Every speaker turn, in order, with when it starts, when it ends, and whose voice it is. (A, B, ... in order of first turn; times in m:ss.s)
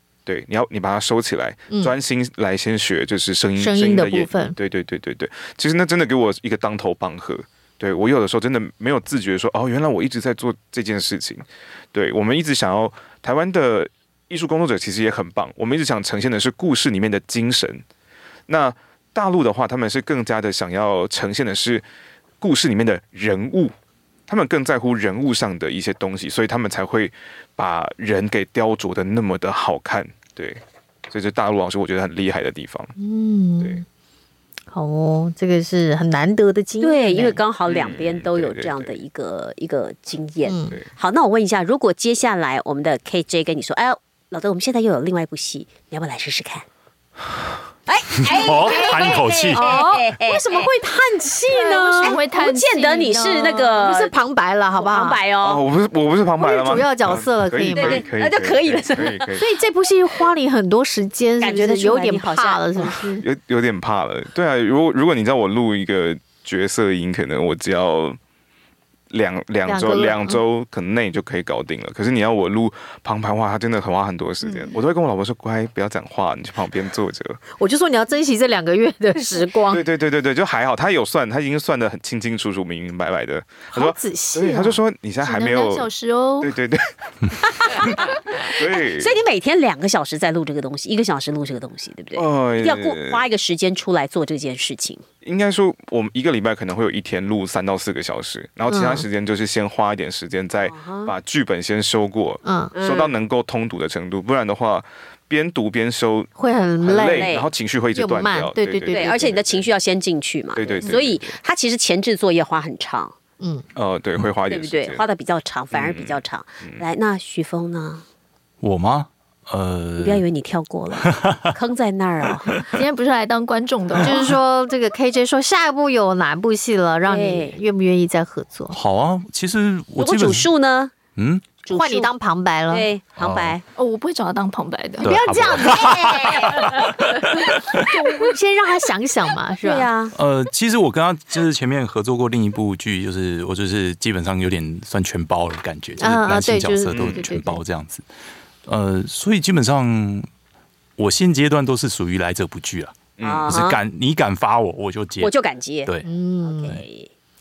0:00.3-0:17.8 A
0:03.6-0:04.6 B
0:18.5-0:21.8 A
0:22.4-0:23.7 A
0:24.3-0:32.9 A
0:33.0-0:33.8 B
0:34.7-0:37.4 B
0:36.8-0:46.7 C
0:37.7-0:39.0 A
0:40.4-0:40.8 B
0:47.9-0:50.7 C
0:48.3-0:49.6 D
0:48.7-0:52.2 B
0:51.5-0:53.7 E
0:52.0-0:54.1 C
0:53.8-0:55.2 B
0:54.8-0:55.6 C
0:55.4-0:59.4 A
0:56.4-0:58.0 B
0:57.8-0:59.3 C
0:59.4-1:03.2 B
1:01.4-1:03.0 C
1:03.2-1:08.2 A
1:09.1-1:17.4 A
1:09.7-1:10.4 B
1:14.4-1:14.8 E
1:17.6-1:19.8 B
1:19.7-1:25.9 A
1:23.7-1:24.8 B
1:25.2-1:26.5 E
1:26.4-1:26.8 A
1:27.9-1:29.2 A
1:28.5-1:35.0 C
1:32.2-1:33.2 A
1:35.2-1:46.3 A
1:38.7-1:39.1 B
1:40.7-1:41.1 C
1:42.4-1:42.7 B
1:42.8-1:43.1 C
1:46.4-1:47.3 B
1:46.8-1:49.7 A
1:47.1-1:47.5 C
1:47.9-1:49.4 B
1:48.9-1:53.1 C
1:50.6-1:51.4 A
1:53.4-1:53.6 B
1:53.8-1:55.0 A
1:54.5-1:58.0 C
1:55.7-1:56.8 A
1:58.6-2:00.2 D
2:00.0-2:02.7 C
2:01.0-2:01.5 D
2:02.7-2:04.4 E
2:04.0-2:08.8 B
2:07.1-2:07.6 C
2:08.7-2:10.5 D
2:10.0-2:10.9 C
2:11.2-2:11.5 D
2:11.6-2:12.1 C
2:11.7-2:12.9 B
2:12.7-2:13.6 C
2:13.2-2:13.6 D
2:13.8-2:15.1 E
2:15.0-2:17.9 D
2:15.0-2:19.9 B
2:15.8-2:16.6 C
2:19.6-2:20.1 C
2:20.1-2:28.0 D
2:26.0-2:27.6 B
2:26.9-2:27.2 A
2:28.7-2:30.3 D
2:31.0-2:35.3 D
2:33.2-2:33.6 A
2:33.2-2:33.8 C
2:35.2-2:35.9 C
2:36.0-2:36.8 B
2:36.4-2:37.1 C